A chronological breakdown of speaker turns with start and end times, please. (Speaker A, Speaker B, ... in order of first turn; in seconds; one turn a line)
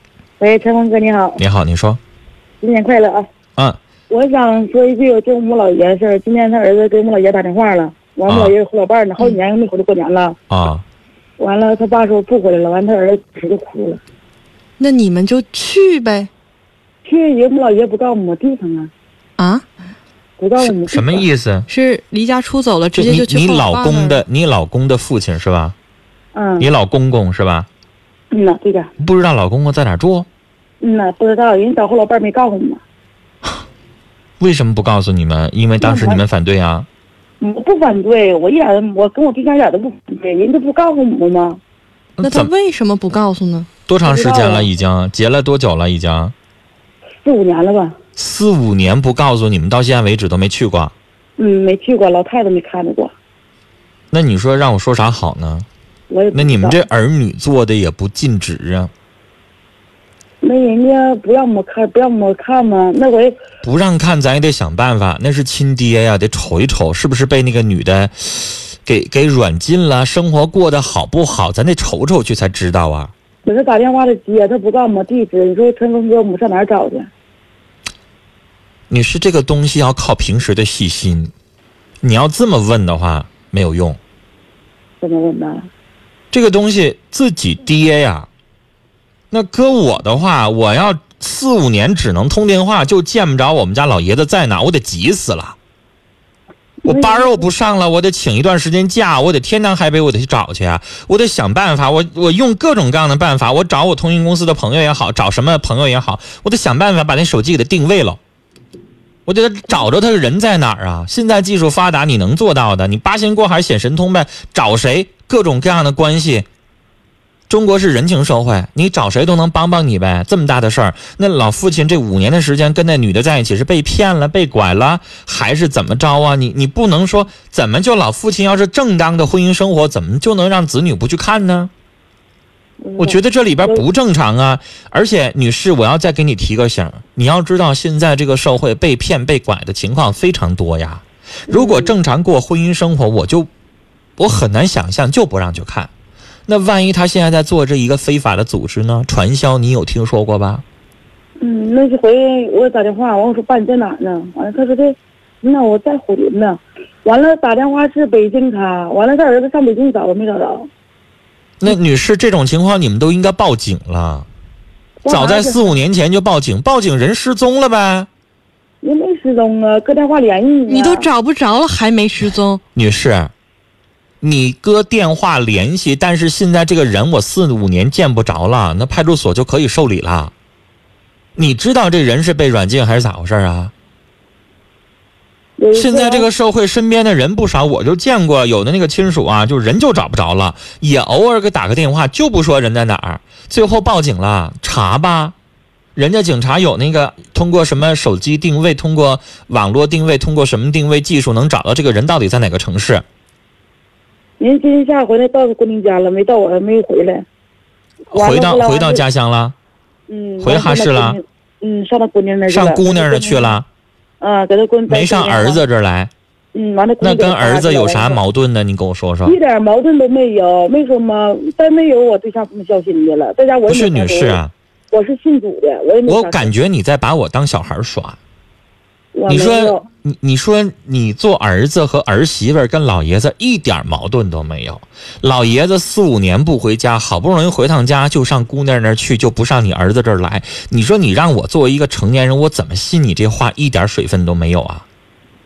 Speaker A: 0.4-1.4
Speaker B: 1.4-2.0
Speaker A: 2.6-3.2
Speaker A: 4.1-10.4
Speaker B: 8.3-8.5
Speaker B: 10.5-10.8
Speaker A: 11.4-14.0
Speaker C: 14.8-16.3
Speaker A: 17.0-18.9
Speaker C: 19.4-19.6
Speaker A: 20.4-21.2
Speaker B: 20.6-21.7
Speaker C: 21.7-24.2
Speaker B: 22.9-25.7
Speaker A: 26.3-26.7
Speaker B: 26.6-27.7
Speaker A: 28.3-28.9
Speaker B: 29.0-30.3
Speaker A: 30.8-32.8
Speaker B: 34.4-36.9
Speaker A: 35.8-36.2
Speaker A: 37.4-41.6
Speaker B: 42.2-42.5
Speaker C: 42.2-43.7
Speaker B: 43.9-46.3
Speaker A: 44.0-44.7
Speaker A: 47.2-47.9
Speaker B: 48.2-50.9
Speaker A: 51.4-53.1
Speaker B: 54.1-55.6
Speaker A: 56.1-56.8
Speaker B: 56.3-58.9
Speaker A: 60.4-63.4
Speaker B: 63.6-73.1
Speaker A: 73.4-77.1
Speaker B: 78.9-81.3
Speaker B: 82.0-84.0
Speaker A: 85.0-85.7
Speaker B: 86.3-88.3
Speaker B: 89.3-95.6
Speaker A: 96.8-97.5
Speaker B: 96.8-108.2
Speaker B: 109.2-116.5
Speaker B: 117.5-131.7
Speaker A: 132.8-133.8
Speaker B: 133.0-143.5
Speaker A: 141.5-141.9
Speaker B: 144.2-145.9
Speaker B: 146.5-150.6
Speaker A: 151.4-160.7
Speaker B: 161.6-164.3
Speaker A: 165.0-165.7
Speaker B: 165.1-168.1
Speaker A: 168.8-171.1
Speaker C: 170.7-172.6
Speaker B: 172.7-173.3
Speaker B: 174.2-180.3
Speaker B: 181.3-183.7
Speaker A: 185.6-186.3
Speaker B: 185.7-195.3
Speaker B: 195.9-203.0
Speaker A: 204.4-207.2
Speaker B: 208.1-209.5
Speaker A: 208.1-209.0
Speaker A: 210.1-213.6
Speaker B: 210.4-211.2
Speaker B: 212.5-213.7
Speaker A: 214.2-215.6
Speaker B: 214.9-216.1
Speaker A: 216.5-218.2
Speaker B: 217.0-219.3
Speaker A: 219.2-224.4
Speaker B: 223.7-224.5
Speaker A: 224.9-226.5
Speaker B: 226.1-228.2
Speaker A: 229.1-229.8
Speaker B: 229.3-244.8